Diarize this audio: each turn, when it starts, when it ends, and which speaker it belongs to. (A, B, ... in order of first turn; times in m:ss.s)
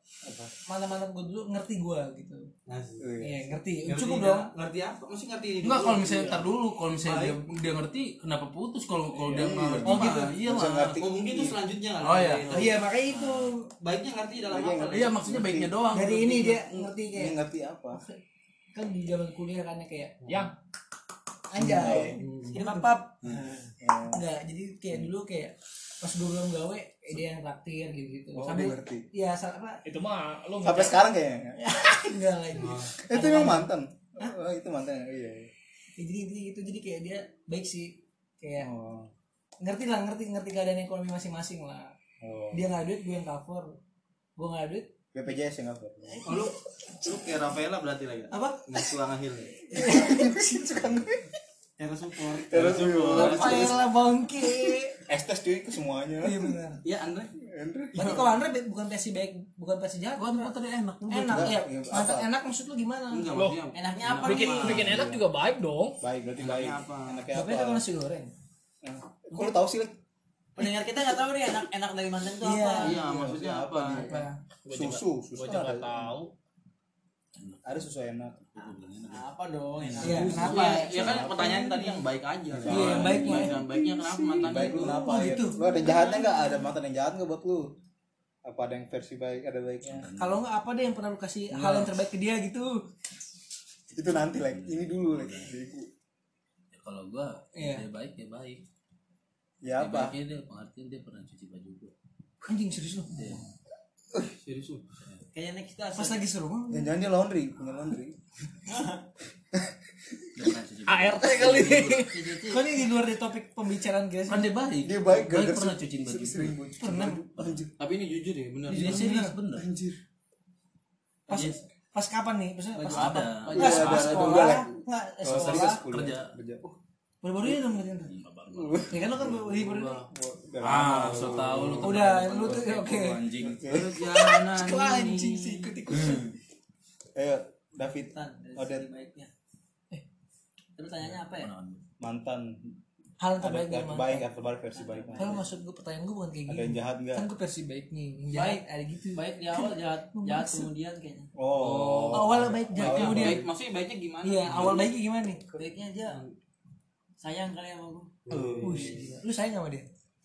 0:00.2-0:00.5 A
0:00.7-0:02.5 B
0:02.7-0:03.1 C
0:03.0-0:03.4 A
0:03.2-0:04.5 B
0:03.8-0:06.4 C
0:05.6-0:11.0 D
0:07.0-0:07.4 C
0:09.1-0:09.6 E
0:09.3-0:11.6 A
0:09.8-0:10.3 B
0:11.0-0:12.8 C
0:12.0-0:12.7 D
0:12.5-0:13.6 B
0:13.7-0:15.2 C
0:14.5-0:15.7 A
0:14.9-0:16.9 D
0:15.9-0:17.4 B
0:17.1-0:18.0 A
0:18.7-0:20.2 B
0:20.2-0:20.5 E
0:21.5-0:23.1 B
0:21.6-0:22.2 A
0:22.2-0:22.6 C
0:22.5-0:23.7 F
0:23.8-0:24.2 A
0:24.1-0:29.8 B
0:28.4-0:29.0 A
0:29.8-0:31.0 E
0:30.6-0:31.6 A
0:31.6-0:34.3 B
0:32.6-0:32.9 C
0:33.0-0:35.5 A
0:36.0-0:38.7 B
0:38.6-0:39.1 A
0:39.6-0:41.9 B
0:42.2-0:42.7 A
0:42.5-0:43.7 B
0:44.4-0:44.9 B
0:45.1-0:46.4 A
0:46.2-0:49.5 C
0:48.3-0:48.7 B
0:49.7-0:50.7 B
0:49.7-0:51.3 A
0:51.8-0:52.8 F
0:52.3-0:53.8 A
0:52.5-0:53.7 D
0:52.5-0:53.3 C
0:53.1-0:55.0 B
0:54.4-0:56.6 A
0:56.2-0:56.8 B
0:56.8-0:57.3 C
0:57.4-0:58.3 A
0:57.9-1:03.3 B
1:00.2-1:01.4 F
1:01.2-1:02.3 A
1:03.1-1:05.0 C
1:03.3-1:03.6 E
1:03.7-1:05.0 F
1:04.2-1:06.0 E
1:04.7-1:05.2 A
1:06.0-1:07.8 A
1:06.4-1:07.2 C
1:07.3-1:08.3 B
1:08.8-1:09.9 A
1:10.6-1:13.0 F
1:12.4-1:12.9 B
1:12.8-1:14.1 C
1:12.9-1:16.2 A
1:14.0-1:14.4 B
1:14.6-1:16.3 E
1:17.6-1:18.5 A
1:18.5-1:19.3 D
1:18.6-1:20.8 F
1:19.8-1:20.6 D
1:20.0-1:22.0 B
1:20.0-1:21.8 A
1:20.2-1:25.0 C
1:22.5-1:23.8 A
1:22.6-1:23.4 D
1:22.7-1:23.6 B
1:24.3-1:27.7 A
1:24.4-1:26.6 B
1:28.4-1:30.1 A
1:29.8-1:30.5 D
1:30.1-1:32.8 B
1:31.5-1:31.9 D
1:33.9-1:35.9 A
1:34.1-1:35.5 D
1:36.7-1:38.6 D
1:37.6-1:37.8 B
1:39.6-1:40.2 A
1:39.8-1:41.9 D
1:42.4-1:43.4 B
1:43.1-1:43.4 D
1:44.4-1:44.8 C
1:45.3-1:46.2 F
1:46.0-1:46.9 B
1:46.7-1:48.2 A
1:48.7-1:49.0 F
1:50.3-1:52.1 D
1:50.8-1:52.3 E
1:52.1-1:52.7 F
1:52.5-1:54.5 B
1:54.3-1:56.6 D
1:54.8-1:57.7 A
1:56.8-1:57.2 B
1:57.8-1:59.2 C
1:58.7-1:59.4 B
1:58.7-1:59.7 D
1:59.5-2:00.0 A
2:01.3-2:05.8 B
2:01.3-2:01.6 D
2:02.8-2:03.6 F
2:02.9-2:04.5 D
2:03.5-2:06.8 A
2:03.6-2:04.4 C
2:05.3-2:06.3 D
2:07.2-2:08.1 B
2:08.1-2:09.1 D
2:08.5-2:09.4 A
2:08.9-2:10.0 B
2:09.4-2:10.1 C
2:10.0-2:12.6 A
2:10.6-2:13.7 D
2:11.8-2:13.2 B
2:13.4-2:16.3 A
2:13.6-2:15.8 C
2:15.4-2:16.1 B
2:15.9-2:16.3 D
2:17.2-2:18.9 A
2:18.1-2:19.3 F
2:20.8-2:21.5 F
2:21.0-2:21.8 D
2:22.0-2:22.7 A
2:23.2-2:24.2 B
2:23.4-2:25.4 A
2:24.7-2:25.4 F
2:25.2-2:30.7 B
2:26.5-2:27.3 A
2:28.3-2:31.3 F
2:31.4-2:33.4 A
2:31.6-2:32.2 D
2:32.1-2:33.4 B
2:32.7-2:34.9 C
2:34.2-2:35.4 B
2:35.5-2:36.2 F
2:36.1-2:36.3 C
2:37.2-2:38.2 F
2:38.2-2:39.1 C
2:38.3-2:39.0 A
2:38.6-2:39.9 B